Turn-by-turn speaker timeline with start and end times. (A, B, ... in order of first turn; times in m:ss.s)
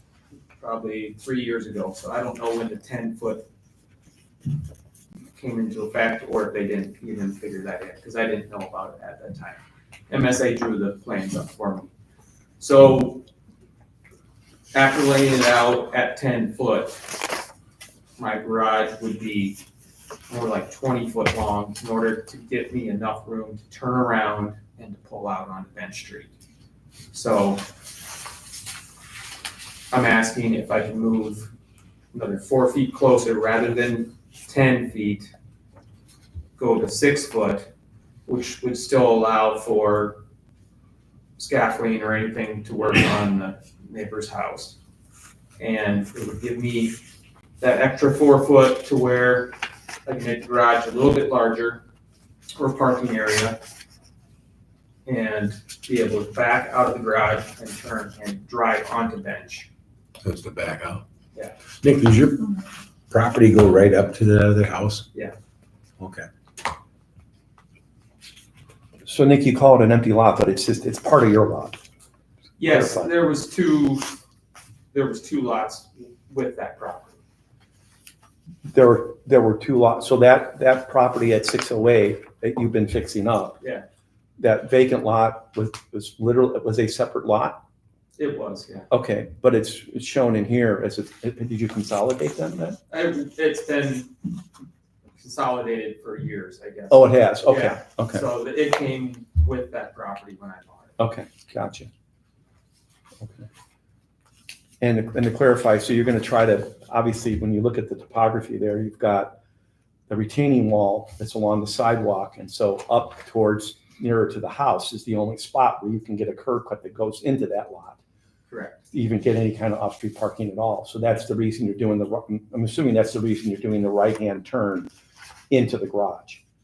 0:00.6-0:03.4 A
0:05.3-0:11.9 A
0:12.6-0:13.2 A
0:14.7-0:17.0 A
0:18.2-0:19.6 A
0:20.3-0:26.3 A
0:27.1-0:27.6 A
0:29.9-0:31.5 A
0:32.1-0:35.3 A
0:36.6-0:37.7 A
0:38.2-0:40.2 A
0:41.4-0:44.8 A
0:45.6-0:47.0 A
0:47.6-0:49.5 A
0:50.0-0:51.8 A
0:52.5-0:53.6 A
0:55.0-0:59.7 A
1:00.2-1:01.0 B
1:01.8-1:05.0 B
1:06.0-1:06.3 B
1:09.0-1:11.8 C
1:12.6-1:14.1 A
1:12.6-1:13.1 C
1:14.9-1:17.2 A
1:18.7-1:23.6 C
1:23.6-1:23.8 A
1:24.4-1:27.6 C
1:28.2-1:28.9 A
1:28.9-1:32.8 C
1:32.9-1:34.1 A
1:35.2-1:40.9 A
1:36.9-1:38.2 C
1:41.0-1:41.9 C
1:43.2-1:43.5 C
1:44.8-1:49.3 C
1:50.1-1:58.0 C
1:58.5-1:58.8 A
1:58.9-2:04.9 C
2:05.5-2:06.4 C